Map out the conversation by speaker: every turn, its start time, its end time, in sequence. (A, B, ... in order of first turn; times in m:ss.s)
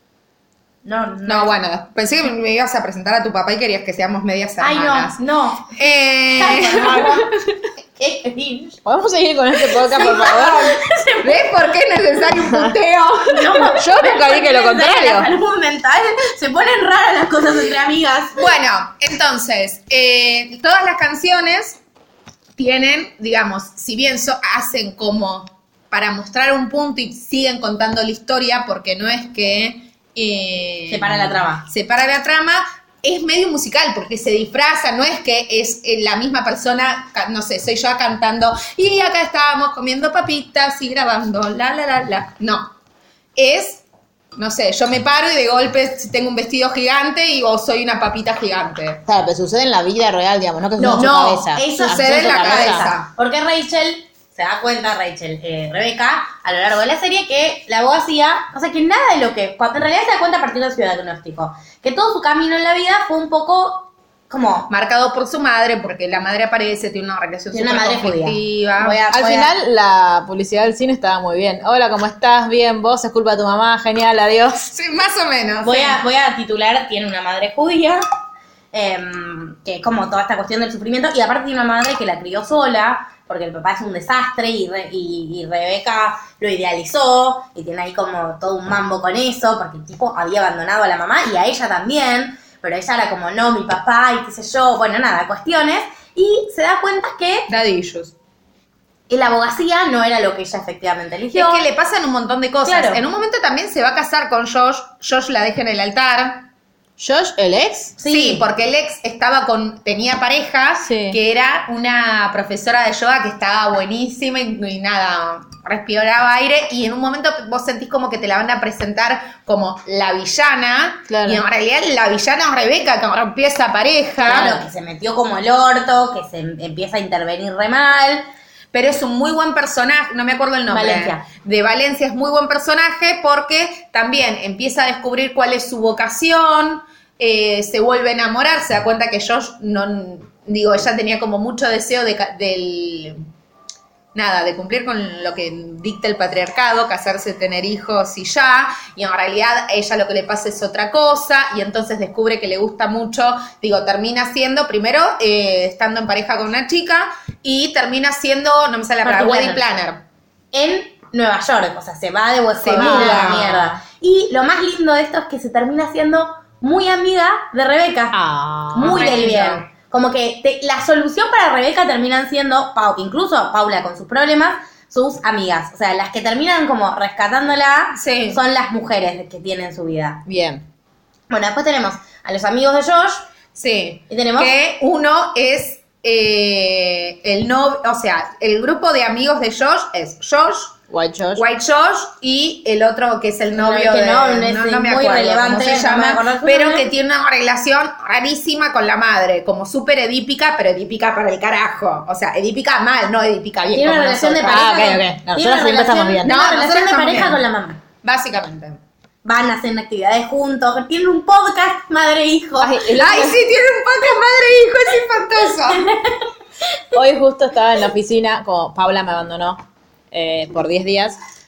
0:00.8-0:01.6 A
0:01.3-0:05.2 B
0:04.6-0:05.8 A
0:05.7-0:07.2 B
0:06.4-0:07.3 A
0:08.0-0:08.8 A
0:08.8-0:10.8 C
0:09.8-0:11.5 A
0:11.2-0:13.7 B
0:12.3-0:12.8 C
0:13.3-0:18.4 A
0:13.6-0:15.3 C
0:18.4-0:21.8 B
0:22.6-0:42.8 B
0:30.9-0:31.7 A
0:43.4-0:43.8 B
0:44.4-0:49.0 B
0:49.1-0:52.9 C
0:50.8-0:53.1 B
0:50.8-1:04.7 A
1:04.7-1:09.0 B
1:07.5-1:09.5 A
1:09.1-1:14.7 C
1:14.7-1:16.0 B
1:15.6-1:18.0 A
1:18.7-1:37.5 A
1:37.5-1:38.1 B
1:39.1-1:41.7 A
1:41.3-1:46.5 B
1:42.6-1:43.0 A
1:47.0-1:48.0 C
1:48.0-1:48.5 A
1:48.0-2:04.6 B
1:50.8-1:51.2 C
2:01.1-2:01.4 C
2:04.2-2:08.3 A
2:08.7-2:23.2 B
2:10.7-2:11.2 A
2:24.1-2:40.0 B
2:39.0-2:39.6 A
2:40.5-2:48.2 A
2:42.6-2:43.7 B
2:42.7-2:43.6 C
2:48.1-2:49.2 C
2:48.7-3:00.3 A
2:48.8-2:49.7 B
2:58.0-2:58.4 B
3:00.3-3:00.7 C
3:01.3-3:03.3 A
3:03.5-3:10.8 B
3:04.1-3:04.6 A
3:10.9-3:11.4 C
3:11.4-3:25.0 B
3:13.6-3:16.9 A
3:23.7-3:27.8 A
3:24.5-3:26.3 C
3:26.2-3:27.4 B
3:28.0-3:28.8 B
3:29.2-3:33.2 A
3:32.6-3:33.4 C
3:33.0-3:35.9 B
3:35.8-3:36.2 A
3:36.9-3:41.2 C